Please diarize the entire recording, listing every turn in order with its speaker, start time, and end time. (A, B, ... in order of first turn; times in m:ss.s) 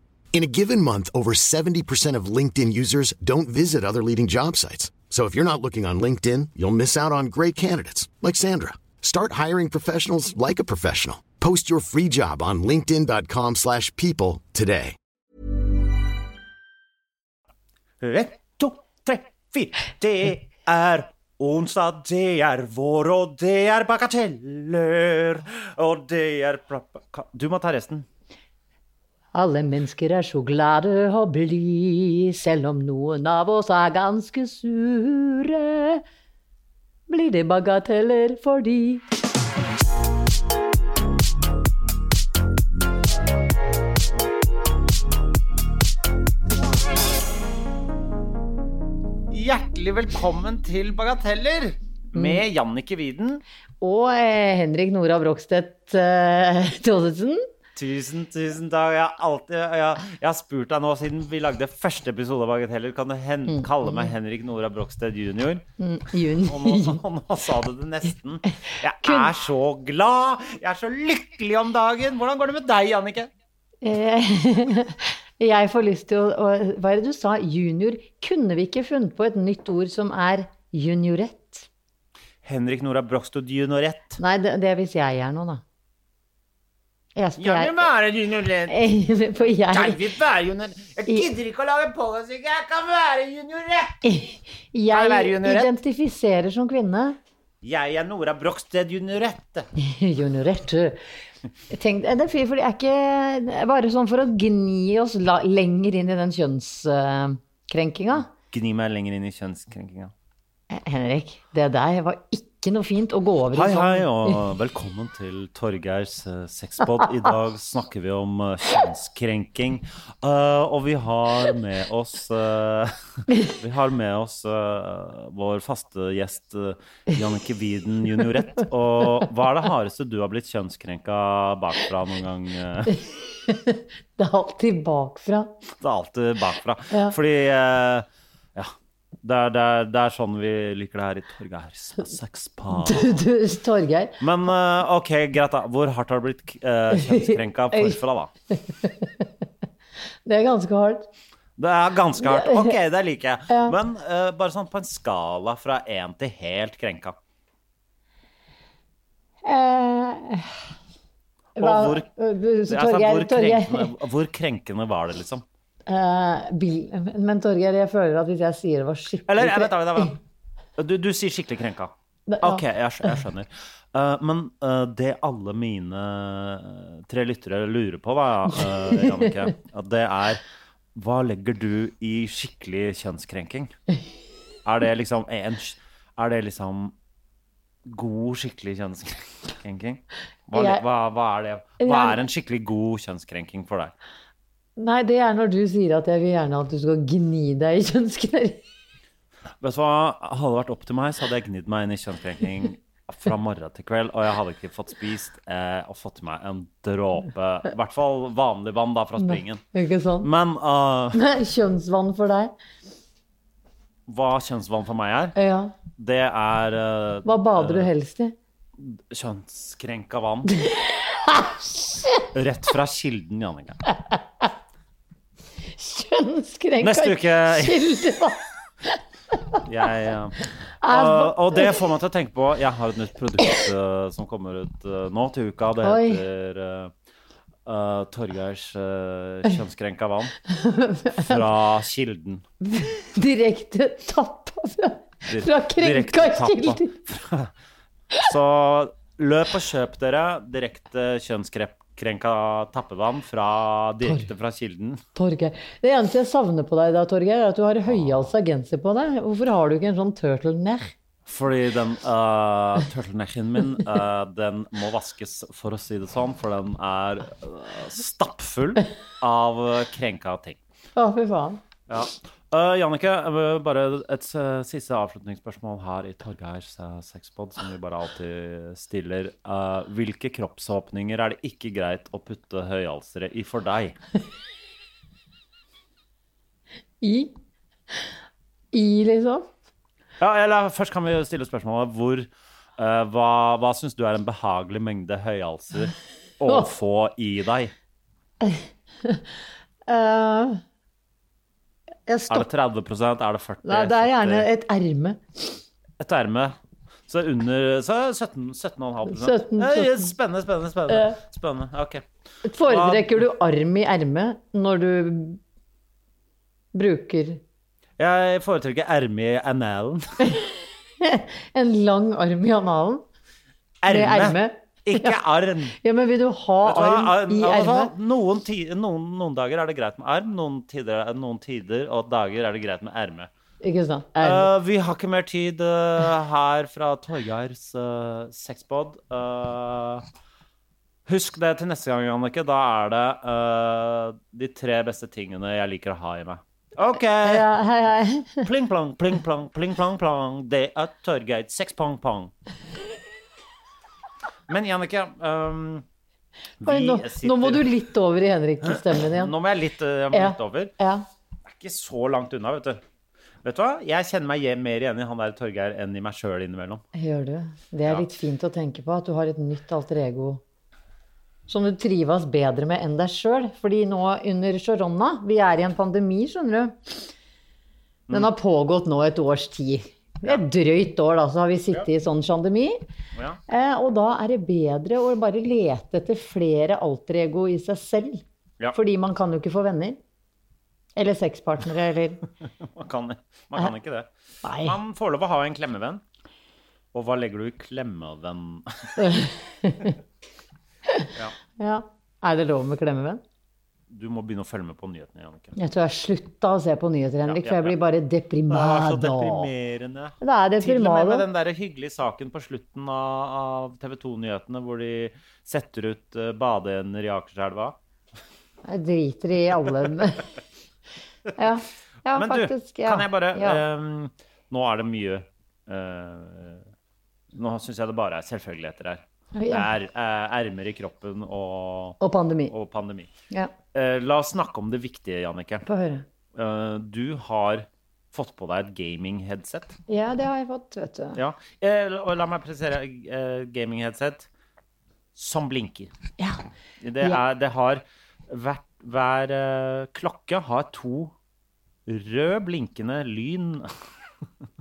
0:00.3-0:15.0 A
0:18.0-0:28.1 B
0:29.3-0:36.0 C
0:37.1-0:39.0 C
0:49.3-0:53.4 B
0:52.1-0:52.4 C
0:53.8-0:57.5 C
0:57.8-1:05.6 B
1:03.5-1:04.1 C
1:05.8-1:07.0 C
1:06.4-1:13.3 B
1:09.0-1:09.3 C
1:13.8-1:21.7 C
1:22.4-1:24.2 B
1:24.2-1:25.6 C
1:27.2-1:27.9 C
1:27.4-1:28.8 B
1:28.7-1:30.0 C
1:29.6-1:34.0 B
1:34.0-1:37.2 C
1:34.9-1:35.7 B
1:37.6-1:39.7 B
1:39.8-1:41.0 C
1:41.7-1:48.3 C
1:48.5-1:50.1 B
1:50.7-1:54.4 C
1:53.5-2:13.0 B
2:12.9-2:15.5 C
2:15.8-2:23.2 B
2:22.7-2:24.2 C
2:24.2-2:28.3 B
2:26.9-2:28.0 C
2:28.5-2:29.3 C
2:30.3-2:31.1 C
2:31.6-2:37.2 B
2:32.2-2:32.7 C
2:33.5-2:33.8 C
2:39.4-2:40.5 C
2:41.6-2:42.1 B
2:41.6-2:43.9 C
2:42.7-2:45.4 B
2:45.9-2:50.1 C
2:49.3-2:50.2 B
2:50.8-3:00.4 B
2:52.3-2:53.2 C
2:59.0-2:59.3 C
3:01.0-3:03.8 B
3:04.6-3:06.9 B
3:07.9-3:14.0 B
3:10.5-3:10.8 C
3:11.8-3:12.2 C
3:14.8-3:18.6 C
3:19.6-3:29.6 B
3:29.2-3:30.3 C
3:30.2-3:31.2 B
3:31.1-3:32.5 C
3:34.1-3:35.4 B
3:35.4-3:35.7 C
3:36.0-3:37.9 B
3:37.2-3:38.4 C
3:38.8-3:40.5 B
3:40.5-3:42.3 C
3:42.3-3:43.8 B
3:45.8-3:48.4 C
3:46.8-3:47.8 B
3:49.6-3:56.9 B
3:50.8-3:51.8 C
3:55.8-3:56.2 C
3:57.7-4:00.4 B
4:00.5-4:01.4 C
4:01.2-4:02.4 B
4:02.6-4:06.9 C
4:05.3-4:07.5 B
4:08.2-4:15.0 B
4:14.0-4:14.3 C
4:15.2-4:20.9 C
4:21.3-4:30.6 B
4:31.0-4:31.6 C
4:31.9-4:44.0 B
4:47.0-4:47.3 C
4:48.7-4:49.5 C
4:50.2-4:57.7 B
4:58.4-4:59.2 C
4:59.9-5:00.6 C
5:02.1-5:02.5 C
5:02.3-5:04.5 B
5:03.6-5:05.5 C
5:06.0-5:06.6 B
5:07.1-5:12.0 B
5:09.1-5:10.1 C
5:10.9-5:11.2 C
5:12.4-5:15.4 C
5:12.7-5:13.2 B
5:16.7-5:17.4 C
5:18.0-5:20.1 B
5:21.0-5:23.0 C
5:23.8-5:25.8 B
5:23.9-5:25.2 C
5:25.8-5:27.9 C
5:26.6-5:33.3 B
5:33.6-5:34.5 C
5:34.2-5:40.0 B
5:41.1-5:47.5 B
5:47.2-5:48.4 C
5:48.4-5:52.3 B
5:54.5-5:55.8 B
5:56.6-5:57.7 B
5:56.6-5:59.3 C
5:58.7-6:00.7 B
6:00.1-6:01.0 C
6:01.5-6:02.8 B
6:03.4-6:06.8 B
6:07.0-6:10.4 C
6:11.5-6:17.1 C
6:18.1-6:22.8 C
6:23.5-6:28.2 C
6:28.7-6:30.0 C
6:31.0-6:32.2 C
6:32.6-6:34.1 B
6:34.4-6:34.8 C
6:34.6-6:36.0 B
6:36.9-6:39.2 B
6:39.0-6:39.9 C
6:41.6-6:43.2 C
6:43.9-6:45.6 B
6:45.6-6:49.5 C
6:47.3-6:47.8 B
6:48.5-6:57.8 B
6:50.2-6:51.2 C
6:58.7-7:00.3 C
7:01.4-7:03.6 C
7:02.1-7:06.6 B
7:07.4-7:12.0 B
7:09.4-7:09.7 C
7:12.0-7:12.5 C
7:12.5-7:13.1 B
7:13.7-7:15.6 B
7:15.6-7:16.0 C
7:16.3-7:19.8 B
7:19.9-7:21.2 C
7:21.2-7:24.3 B
7:25.2-7:25.9 B
7:26.8-7:31.1 B
7:31.9-7:33.7 B